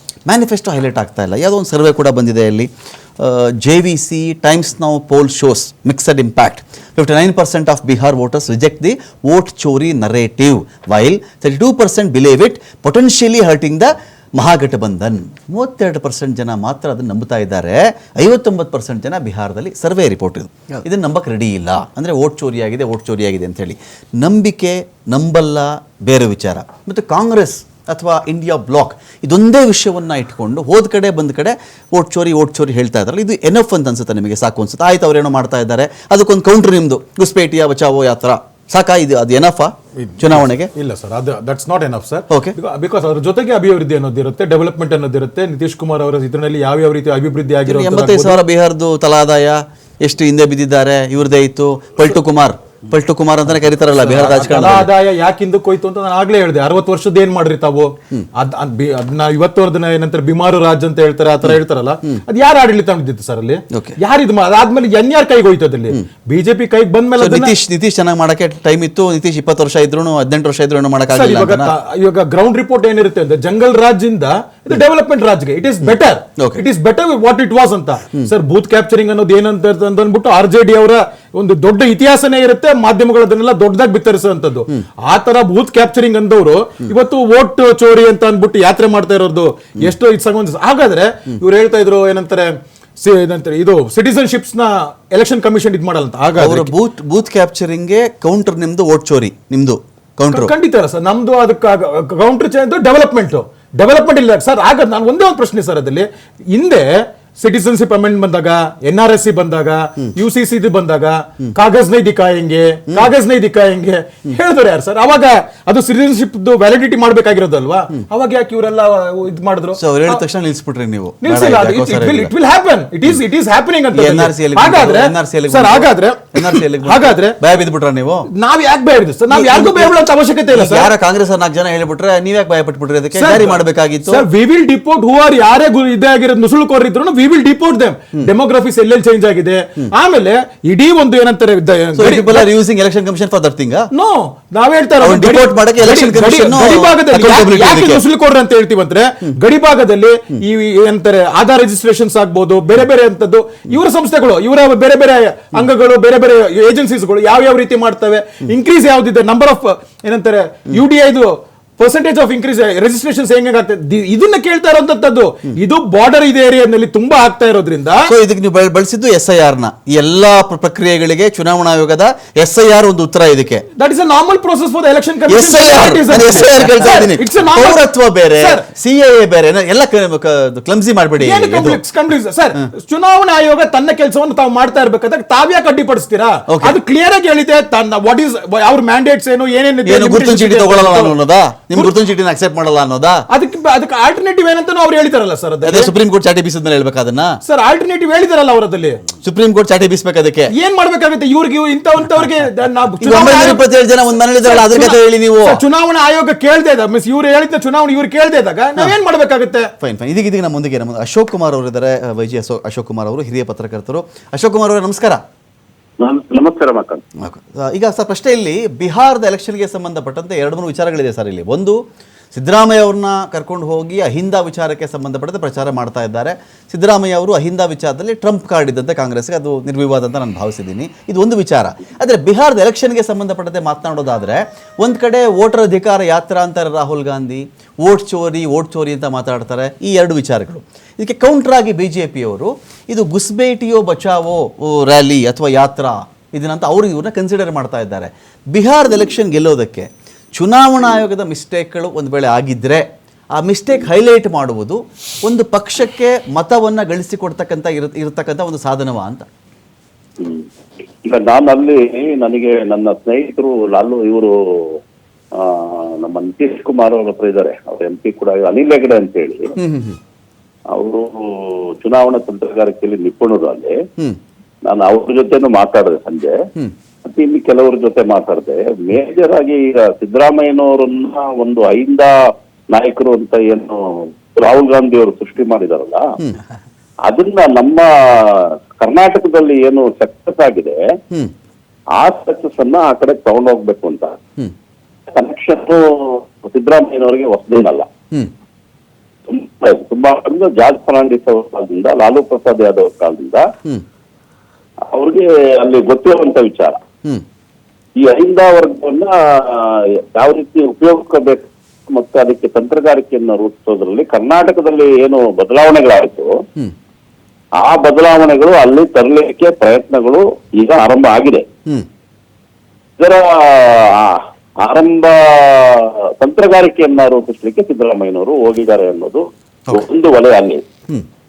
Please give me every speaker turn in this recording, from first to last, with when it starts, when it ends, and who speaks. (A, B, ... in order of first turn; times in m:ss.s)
0:00.3-0:40.7 A
0:40.0-0:48.4 B
0:42.3-0:42.6 A
0:47.7-0:54.9 A
0:53.9-1:07.6 B
1:03.7-1:04.0 A
1:07.2-1:11.7 A
1:11.1-1:36.7 B
1:15.8-1:16.6 A
1:36.4-1:40.5 A
1:40.3-2:00.2 B
1:59.8-2:02.3 A
2:01.2-2:07.4 B
2:03.9-2:08.3 A
2:08.3-2:10.9 B
2:09.3-2:10.0 A
2:10.5-2:14.2 A
2:13.1-2:22.5 B
2:22.0-2:23.9 A
2:23.9-2:48.1 B
2:25.0-2:28.0 A
2:48.0-2:53.7 A
2:53.8-2:58.7 B
2:55.3-3:01.8 A
3:01.2-3:11.2 B
3:06.5-3:06.8 A
3:09.8-3:13.3 A
3:13.3-3:15.9 B
3:15.6-3:17.4 A
3:17.4-3:19.1 B
3:19.1-3:20.5 A
3:20.5-3:23.6 B
3:23.0-3:25.6 A
3:24.4-3:29.7 B
3:29.8-3:35.2 A
3:36.0-3:37.0 C
3:37.2-3:41.8 A
3:42.3-4:12.8 A
4:13.4-4:19.3 A
4:20.2-4:20.5 C
4:21.0-4:24.8 C
4:25.4-4:29.6 C
4:29.6-4:30.0 A
4:30.7-4:33.7 C
4:34.7-4:36.4 C
4:37.0-4:42.1 C
4:42.7-4:46.1 C
4:47.1-4:50.8 C
4:52.0-4:54.2 C
4:55.1-4:57.9 C
4:59.3-5:03.5 C
5:04.9-5:06.8 C
5:08.0-5:16.3 C
5:17.6-5:21.5 C
5:23.0-5:30.6 C